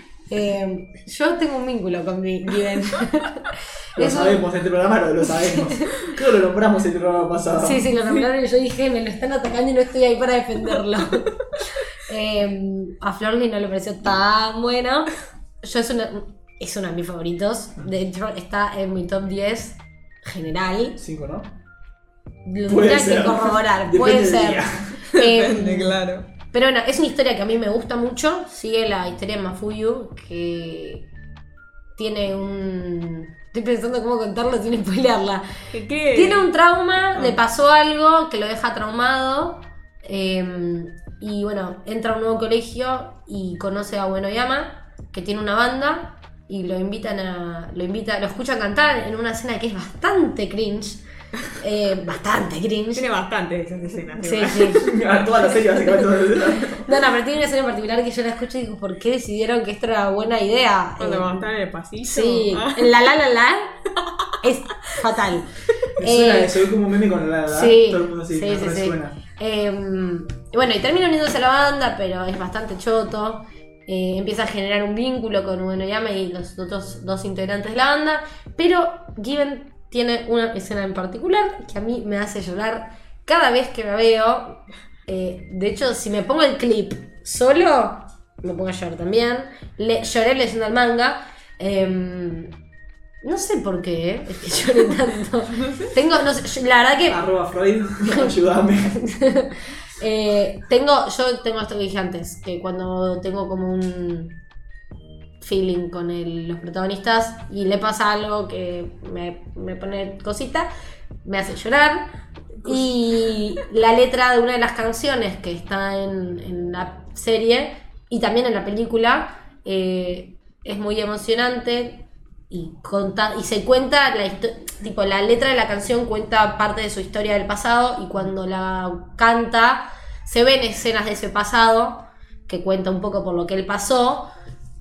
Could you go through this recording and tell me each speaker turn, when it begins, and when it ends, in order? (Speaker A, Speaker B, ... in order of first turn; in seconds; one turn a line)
Speaker A: 0.3-4.4
Speaker B: 4.0-7.9
Speaker A: 5.5-6.1
Speaker A: 7.6-21.0
Speaker B: 21.0-21.5
Speaker A: 22.4-26.0
Speaker B: 22.7-25.1
Speaker C: 25.1-26.2
Speaker A: 26.5-31.1
Speaker A: 32.0-35.5
Speaker C: 35.7-36.5
Speaker A: 36.1-51.0
Speaker A: 51.6-53.1
Speaker C: 52.9-55.0
Speaker A: 54.2-54.9
Speaker B: 54.8-56.9
Speaker A: 56.7-61.5
Speaker C: 61.0-63.0
Speaker A: 62.1-63.7
Speaker C: 64.0-64.3
Speaker A: 64.4-65.5
Speaker A: 66.0-66.6
Speaker B: 66.0-69.2
Speaker A: 67.5-92.5
Speaker A: 93.2-97.2
Speaker C: 95.5-95.9
Speaker B: 97.1-99.0
Speaker A: 98.9-104.4
Speaker A: 105.4-110.7
Speaker A: 111.2-112.1
Speaker A: 112.6-134.3